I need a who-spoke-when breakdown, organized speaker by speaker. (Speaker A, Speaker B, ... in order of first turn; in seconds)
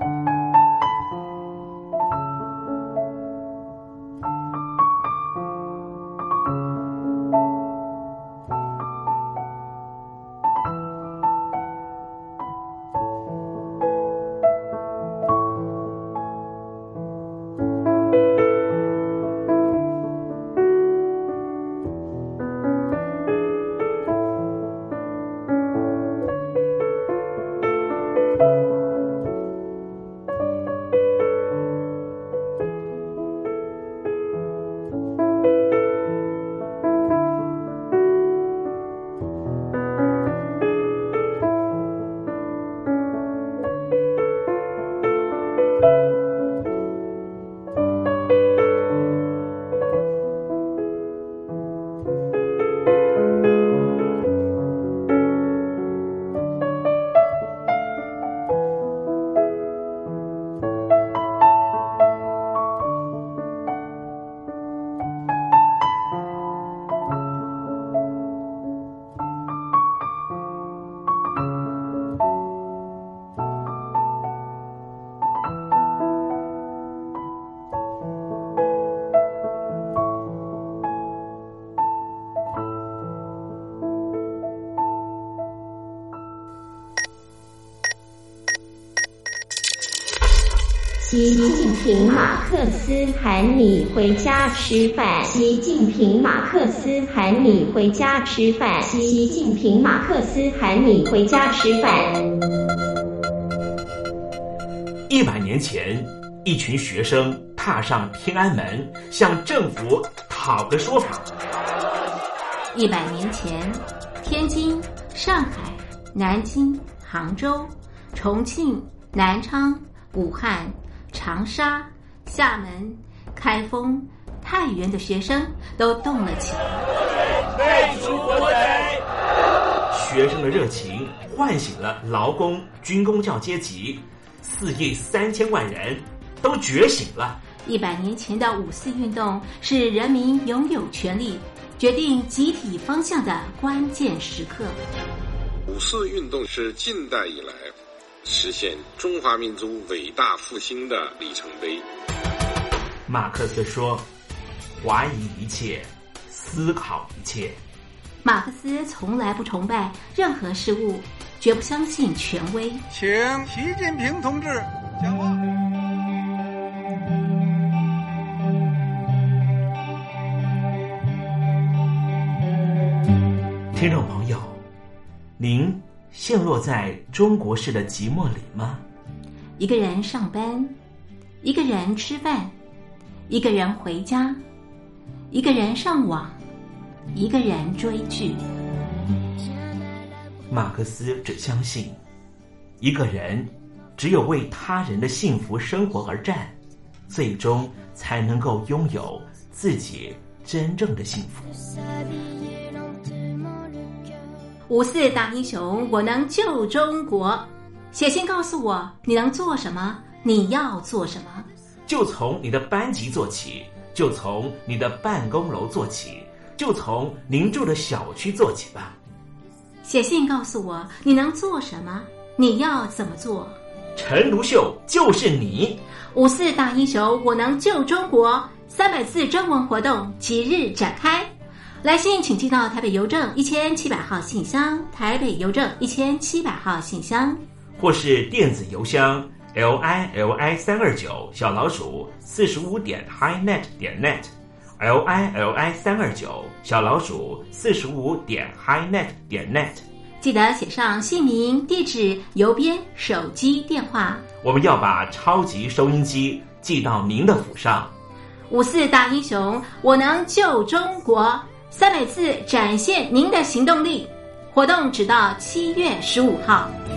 Speaker A: 91.0-102.1
Speaker B: 105.1-111.3, 129.9-137.4, 153.1-154.1, 154.8-157.6, 173.7-174.6, 175.4-178.8, 190.5-192.0, 192.8-196.5, 197.1-201.5, 211.9-218.9, 223.9-225.8, 237.8-249.8, 254.4-257.9
Speaker C: 112.7-126.8, 137.6-144.8, 158.2-162.8, 179.6-180.7, 181.4-182.5, 183.3-184.4, 185.3-186.4, 187.1-188.4, 204.7-211.5, 219.8-223.6, 226.1-231.3, 231.8-237.4, 250.2-254.2, 258.5-266.7
Speaker D: 145.7-151.8
Speaker E: 162.9-165.4